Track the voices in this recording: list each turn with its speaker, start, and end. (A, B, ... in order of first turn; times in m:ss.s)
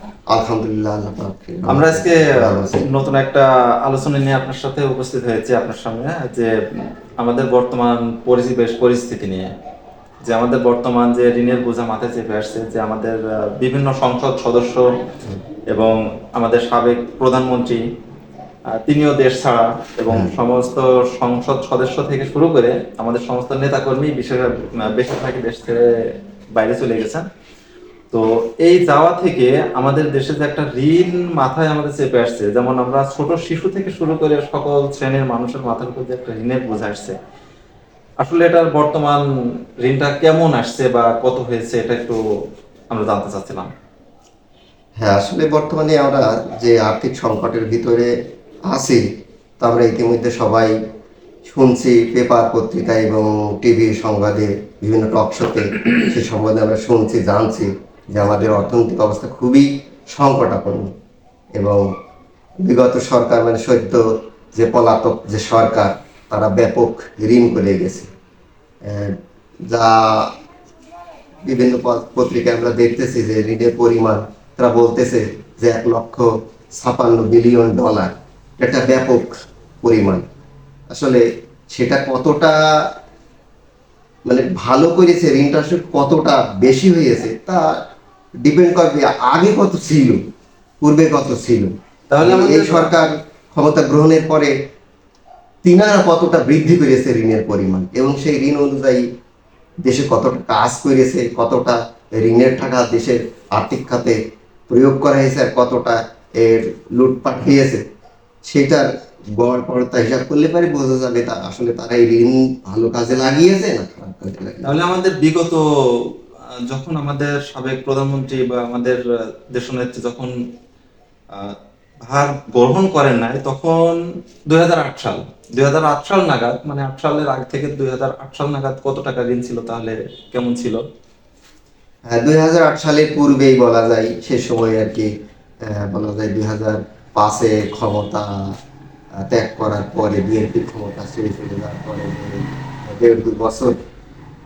0:00.3-0:02.9 A
0:01.7-0:06.5 B
0:07.2-0:09.5 B
0:10.3-0:14.9 B
0:15.7-0:17.8 B
0:18.7-0:25.9 B
0:20.1-0:20.4 A
0:26.6-0:27.3 B
0:28.1-0:37.2 B
0:38.2-0:39.2 B
0:39.8-0:42.2 B
0:42.9-0:43.7 B
0:45.0-0:48.1 A
0:48.7-0:49.0 A
0:49.6-0:50.7 A
0:51.5-1:00.9 A
1:01.6-1:01.8 A
1:02.6-1:04.0 A
1:04.6-1:08.1 A
1:08.8-1:09.2 A
1:09.7-1:10.3 A
1:11.4-1:20.2 A
1:20.9-1:22.6 A
1:24.3-1:27.6 A
1:28.4-1:30.2 A
1:30.8-1:34.5 A
1:32.1-1:33.0 B
1:35.6-1:39.0 A
1:39.8-1:44.2 A
1:44.7-1:47.8 A
1:48.5-1:54.8 A
1:54.6-1:56.1 B
1:56.7-1:59.0 B
1:59.5-2:00.3 B
2:01.3-2:10.8 B
2:12.1-2:15.1 A
2:15.7-2:18.3 A
2:19.2-2:23.8 A